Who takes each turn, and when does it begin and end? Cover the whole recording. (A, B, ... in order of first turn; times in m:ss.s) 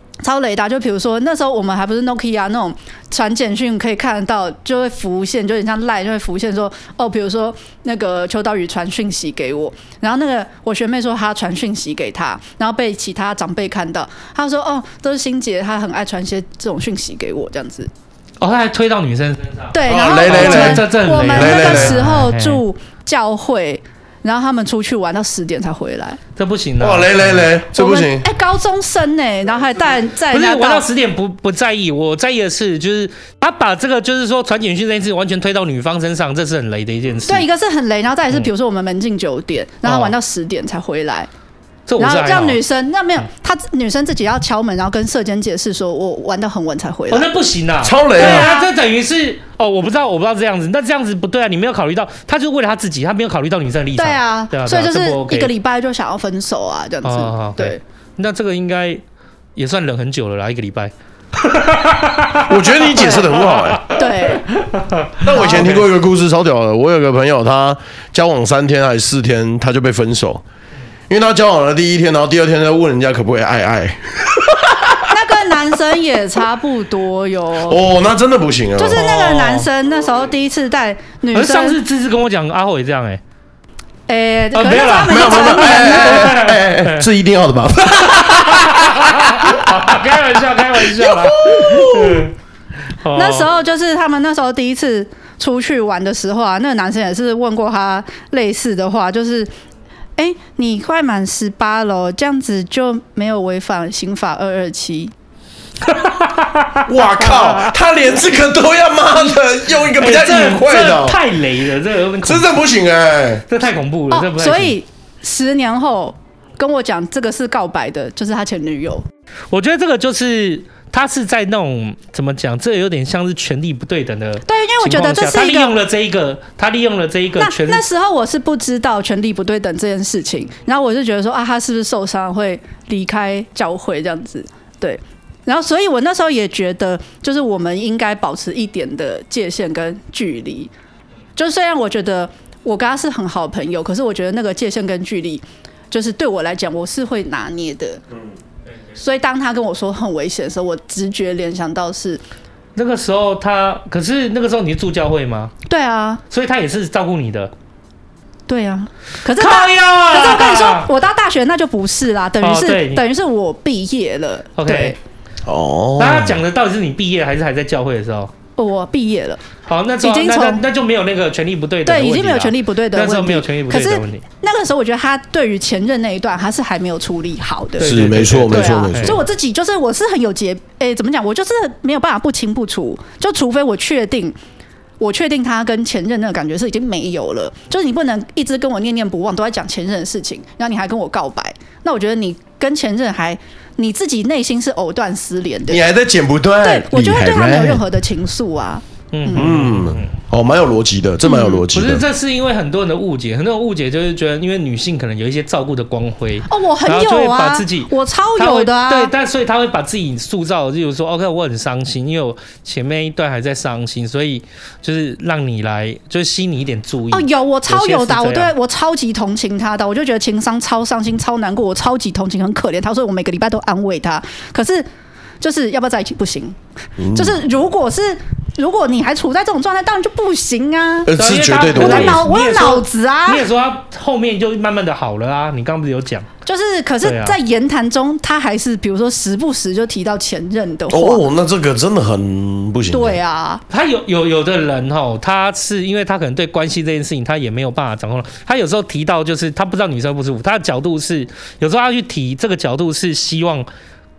0:00.2-0:17.9 A
0:18.4-0:22.6 B
0:19.7-0:26.2 A
0:19.9-0:22.0 C
0:26.4-0:27.5 B
0:26.8-0:28.3 C
0:27.7-0:30.8 A
0:30.3-0:37.5 B
0:37.3-0:41.3 A
0:39.8-0:40.1 B
0:41.9-0:42.6 B
0:42.0-0:47.3 A
0:47.1-0:55.5 B
0:47.8-0:48.5 C
0:48.1-0:48.7 A
0:54.0-0:57.8 A
0:57.0-0:59.0 B
0:59.6-1:05.9 B
1:02.4-1:03.9 C
1:03.9-1:04.5 A
1:05.2-1:10.4 C
1:05.3-1:05.7 A
1:11.1-1:15.1 C
1:15.1-1:17.8 A
1:17.6-1:19.0 C
1:18.8-1:21.8 A
1:18.9-1:19.7 B
1:21.3-1:23.2 B
1:24.1-1:26.4 A
1:24.5-1:27.0 B
1:25.1-1:32.3 C
1:28.0-1:32.3 B
1:33.0-1:33.5 B
1:33.1-1:39.5 A
1:40.2-1:45.1 A
1:45.8-1:47.7 B
1:46.8-1:51.2 C
1:49.9-1:52.6 B
1:52.2-1:53.4 C
1:53.5-1:54.8 B
1:54.1-1:59.0 A
1:59.5-2:07.8 B
2:04.5-2:05.7 A
2:07.4-2:20.7 A
2:21.4-2:28.0 A
2:29.0-2:32.2 A
2:32.8-2:35.5 B
2:35.7-2:36.2 A
2:36.3-2:37.5 B
2:38.5-2:45.0 A
2:39.4-2:40.9 B
2:42.4-2:43.0 B
2:44.6-2:45.0 B
2:45.4-2:46.4 C
2:46.0-2:48.3 B
2:48.6-2:49.4 A
2:49.7-2:54.2 B
2:50.0-2:50.6 A
2:51.8-3:04.4 A
2:57.8-2:59.2 B
2:57.8-2:59.2 C
3:05.0-3:15.8 A
3:15.7-3:17.8 C
3:16.6-3:19.6 A
3:19.1-3:20.2 B
3:19.3-3:22.0 C
3:21.2-3:21.6 A
3:21.7-3:38.5 B
3:26.5-3:29.1 A
3:37.1-3:44.8 A
3:45.4-3:46.6 A
3:47.0-3:47.4 C
3:47.1-3:51.1 A
3:51.0-3:52.2 C
3:51.1-3:56.3 B
3:51.7-3:53.5 A
3:56.4-4:01.2 A
3:57.0-3:57.4 B
4:00.9-4:03.2 C
4:02.9-4:03.6 A
4:03.7-4:13.7 B